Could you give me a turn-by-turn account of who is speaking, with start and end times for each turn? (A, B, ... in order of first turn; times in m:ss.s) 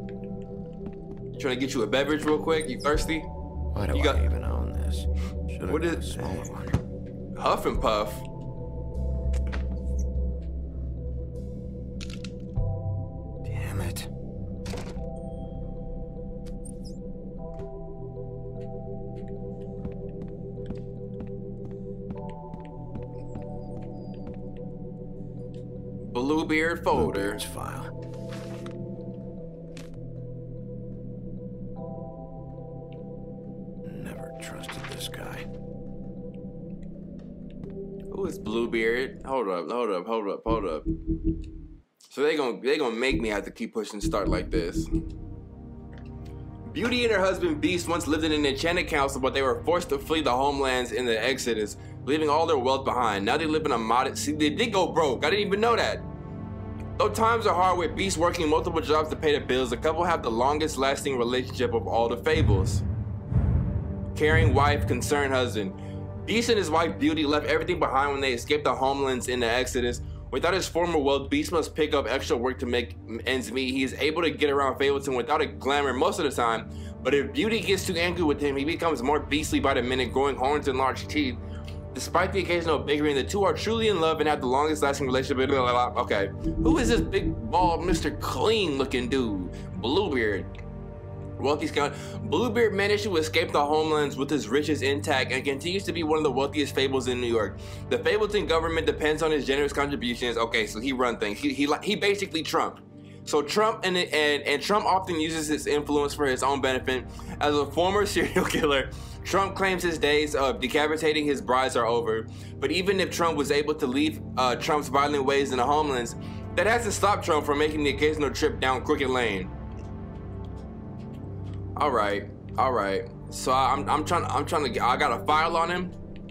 0:01.3-0:03.3 A
0:03.7-0:06.8 B
0:03.9-0:04.2 A
0:05.7-0:06.4 A
0:07.4-0:08.2 A
0:13.4-0:14.1 B
0:26.1-0:27.4 A
0:26.9-0:27.9 B
0:33.8-0:35.4 B
0:38.1-0:40.9 A
0:42.1-0:44.9 A
0:46.6-0:56.0 A
0:57.0-1:02.8 A
1:04.1-1:21.4 A
1:21.9-1:30.5 A
1:31.4-1:59.5 A
2:01.8-2:05.9 A